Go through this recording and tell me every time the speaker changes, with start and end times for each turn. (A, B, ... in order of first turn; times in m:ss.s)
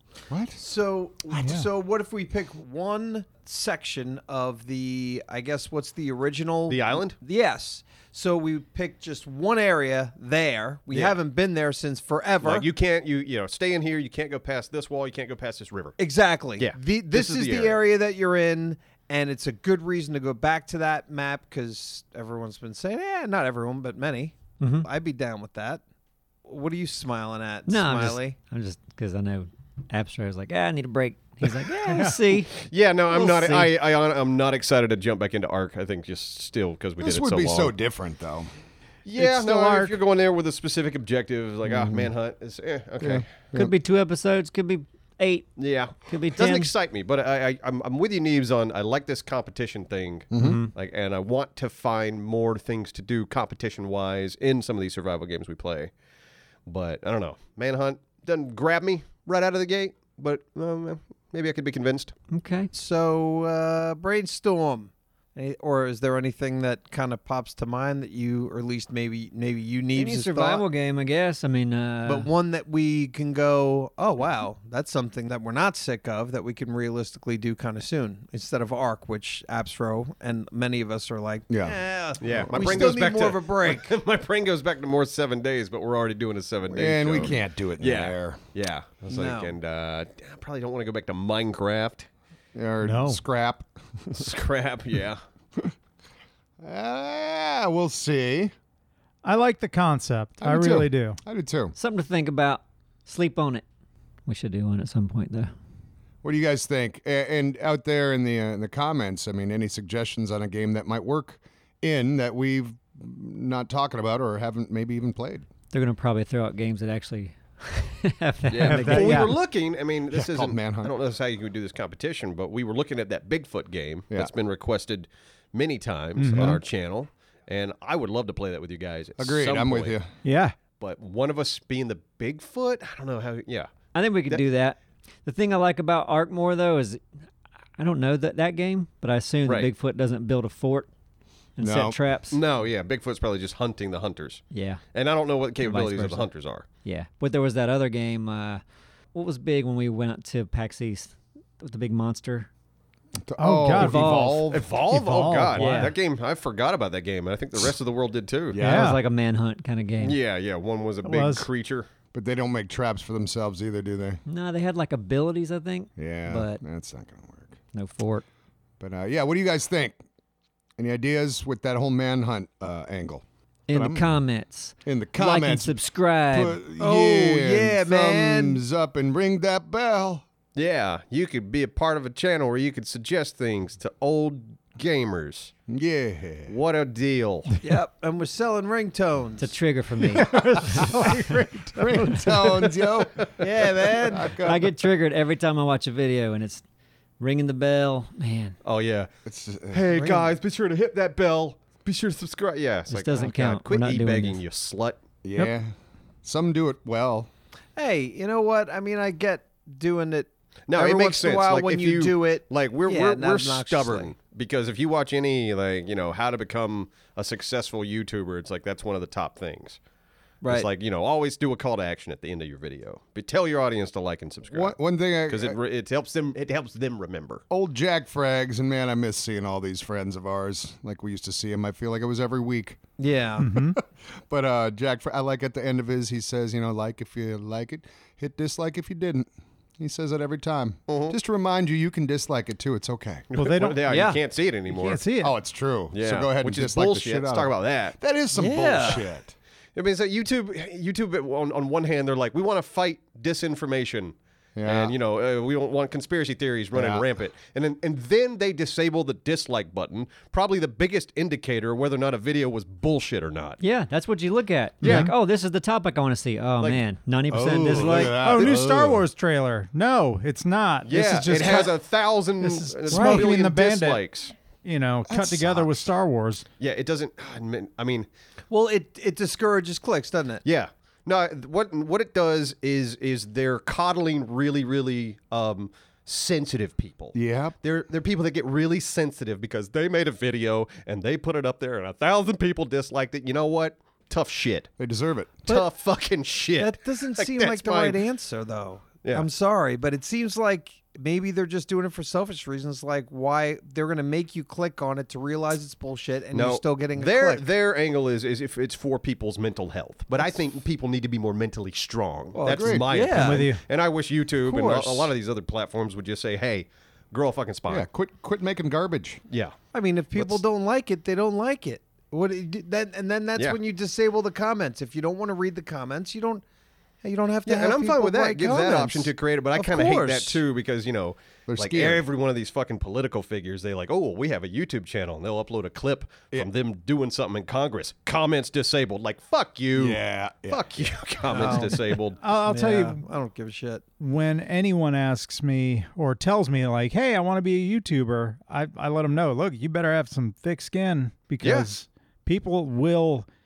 0:00.3-0:00.6 A
0:00.6-0:12.7 B
0:01.3-0:01.6 A
0:06.7-0:07.2 C
0:10.9-0:11.2 C
0:12.4-0:16.0 C
0:16.0-0:25.8 B
0:16.6-0:17.8 C
0:24.6-0:24.9 D
0:26.4-0:28.4 B
0:27.7-0:32.6 D
0:31.9-0:32.3 E
0:32.6-0:37.7 C
0:33.1-0:33.5 D
0:37.0-0:38.5 A
0:39.0-0:43.3 C
0:39.2-0:40.0 E
0:41.7-0:42.1 A
0:43.0-0:43.7 A
0:43.6-0:45.5 D
0:45.6-0:55.9 C
0:46.0-0:46.7 D
0:50.3-0:50.6 A
0:50.4-0:50.7 D
0:56.7-1:02.1 C
1:02.3-1:02.7 D
1:02.7-1:10.6 B
1:09.9-1:12.3 D
1:12.1-1:23.9 B
1:21.5-1:22.7 A
1:22.2-1:32.1 C
1:26.7-1:28.4 A
1:29.1-1:29.5 B
1:32.5-1:34.3 A
1:32.8-1:33.2 E
1:34.1-1:35.2 C
1:36.6-1:38.5 A
1:39.2-1:41.2 E
1:40.4-1:41.7 A
1:41.8-1:43.6 D
1:44.3-1:45.5 D
1:46.2-1:55.5 A
1:55.7-1:59.3 D
1:58.5-2:10.0 C
1:58.6-1:59.4 E
2:00.1-2:00.9 A
2:06.2-2:06.6 E
2:06.4-2:06.6 A
2:09.2-2:10.1 A
2:10.2-2:10.6 E
2:10.8-2:13.7 C
2:13.9-2:17.0 D
2:17.8-2:20.9 D
2:21.6-2:22.4 D
2:21.6-2:22.0 A
2:22.3-2:24.4 C
2:24.5-2:24.8 D
2:24.9-2:26.7 C
2:25.6-2:26.3 D
2:26.8-2:28.6 D
2:29.1-2:32.5 D
2:33.2-2:34.7 A
2:33.4-2:35.9 E
2:33.8-2:34.4 D
2:34.5-2:38.6 C
2:35.6-2:35.9 D
2:38.5-2:38.9 A
2:38.6-2:39.0 E
2:38.6-2:40.2 D
2:40.0-2:41.9 C
2:41.0-2:41.5 E
2:42.1-2:44.2 A
2:44.3-2:46.6 D
2:46.0-2:47.6 A
2:47.7-2:48.2 D
2:48.8-2:50.0 A
2:50.8-2:54.2 A
2:53.7-2:56.6 D
2:54.8-2:55.8 A
2:56.3-3:00.2 A
2:56.8-2:58.6 B
3:00.6-3:05.5 C
3:05.7-3:06.5 A
3:06.5-3:07.5 C
3:07.6-3:09.5 B
3:09.4-3:10.8 D
3:10.2-3:12.7 E
3:11.7-3:14.7 A
3:12.4-3:13.3 C
3:13.4-3:14.4 B
3:14.4-3:16.6 D
3:17.2-3:18.6 D
3:18.6-3:19.1 C
3:19.2-3:19.9 A
3:19.7-3:25.0 C
3:19.9-3:20.3 B
3:22.9-3:24.4 D
3:25.2-3:25.7 A
3:26.2-3:27.3 A
3:27.8-3:34.1 B
3:30.7-3:39.8 C
3:40.4-3:40.7 B
3:40.4-3:47.4 C
3:44.5-3:45.6 A
3:47.5-3:52.8 A
3:53.0-3:53.5 B
3:53.4-3:53.8 E
3:53.6-4:03.3 A
4:00.9-4:01.2 C
4:03.3-4:05.0 C
4:03.4-4:04.1 E
4:03.9-4:04.2 B
4:04.7-4:05.4 E
4:05.2-4:09.4 A
4:05.9-4:08.0 C
4:08.3-4:09.0 B
4:09.8-4:23.6 C
4:14.6-4:14.9 A
4:16.7-4:17.1 A
4:23.6-4:28.3 D
4:24.8-4:25.1 C
4:24.8-4:25.1 E
4:27.3-4:29.0 A
4:27.7-4:28.2 C
4:28.1-4:31.8 E
4:30.9-4:34.3 C
4:32.4-4:34.0 E
4:32.9-4:33.3 B
4:34.6-4:36.5 E
4:35.1-4:35.9 A
4:36.6-4:38.1 C
4:38.5-4:40.4 B
4:40.4-4:54.7 C
4:47.1-4:47.6 A
4:54.8-4:55.5 A
4:55.5-4:58.0 C
4:56.6-5:07.5 B
5:06.3-5:17.9 C
5:12.4-5:13.5 B
5:12.5-5:12.9 A
5:13.1-5:13.6 E
5:14.5-5:15.1 B
5:17.7-5:19.2 A
5:19.3-5:19.6 C
5:19.7-5:26.4 B
5:20.1-5:20.4 C
5:27.0-5:30.4 B
5:27.5-5:42.2 C
5:31.5-5:32.0 A
5:39.8-5:40.7 A
5:41.3-5:41.8 B
5:42.2-5:43.0 E
5:42.4-5:43.8 B
5:44.0-5:53.3 E
5:51.4-5:51.7 C